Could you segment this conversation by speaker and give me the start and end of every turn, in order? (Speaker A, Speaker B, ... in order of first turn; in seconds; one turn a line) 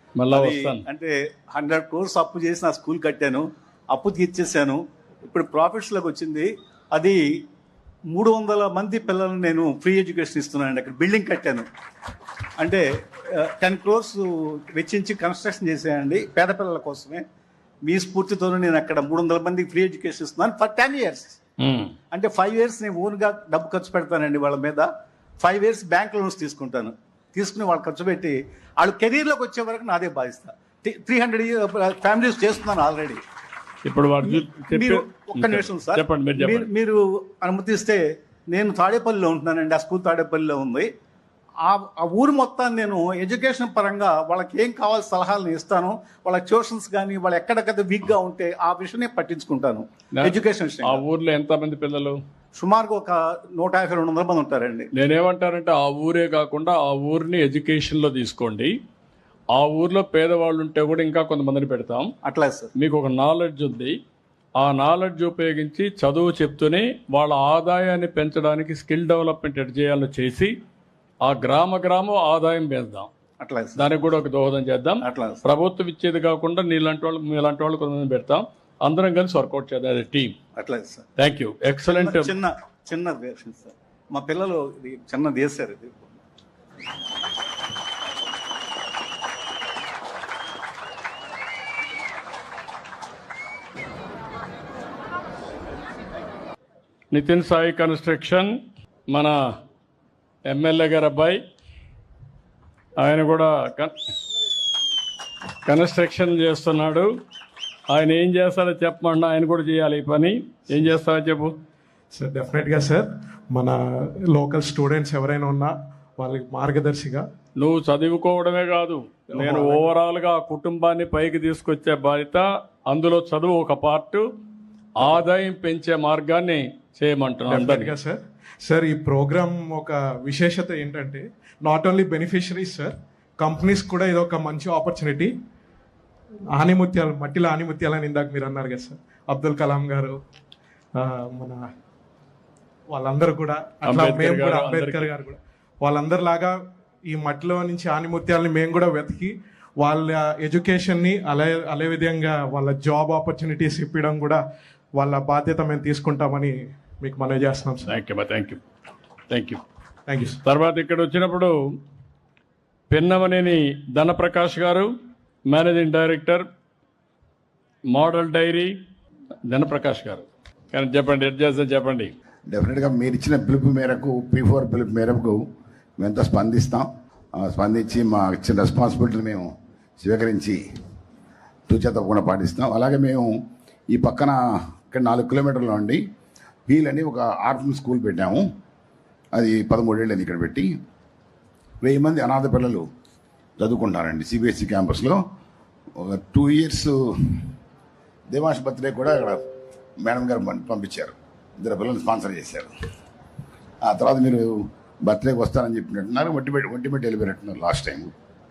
Speaker A: 0.2-0.9
Speaker B: 0.3-7.2
Speaker B: 8.1-11.7
Speaker B: 12.6-17.2
Speaker B: 17.8-21.4
Speaker A: 21.6-21.9
Speaker B: 22.1-33.2
Speaker A: 33.8-36.7
Speaker B: 34.2-40.9
Speaker B: 41.6-51.0
Speaker A: 50.1-52.2
Speaker B: 52.5-54.9
Speaker A: 54.9-58.8
Speaker A: 59.5-62.1
Speaker B: 62.2-62.7
Speaker A: 62.8-64.0
Speaker A: 64.6-70.5
Speaker A: 71.2-73.1
Speaker B: 73.4-73.8
Speaker A: 73.8-80.3
Speaker B: 75.0-75.4
Speaker B: 80.5-81.1
Speaker A: 81.2-82.3
Speaker B: 81.9-86.2
Speaker A: 97.1-98.5
Speaker A: 99.1-99.4
Speaker A: 100.5-101.4
Speaker A: 103.0-103.9
Speaker A: 105.7-107.1
Speaker A: 107.9-111.5
Speaker C: 112.1-117.2
Speaker A: 117.6-124.2
Speaker C: 119.3-119.8
Speaker A: 125.0-127.9
Speaker C: 127.5-135.3
Speaker C: 136.5-140.2
Speaker C: 140.9-141.6
Speaker C: 142.9-146.6
Speaker A: 143.8-145.1
Speaker C: 147.1-154.4
Speaker C: 154.9-157.9
Speaker A: 157.8-158.6
Speaker A: 159.3-159.6
Speaker C: 160.1-160.4
Speaker A: 160.4-161.6
Speaker A: 162.9-164.9
Speaker A: 165.5-166.4
Speaker A: 167.9-168.7
Speaker A: 169.5-172.1
Speaker D: 172.5-175.4
Speaker D: 176.0-180.6
Speaker D: 181.7-186.0
Speaker D: 186.7-188.5
Speaker D: 189.3-190.7
Speaker D: 191.8-192.9
Speaker D: 193.6-195.2
Speaker D: 196.0-197.4
Speaker D: 198.3-199.4
Speaker D: 200.0-202.7
Speaker D: 203.8-208.1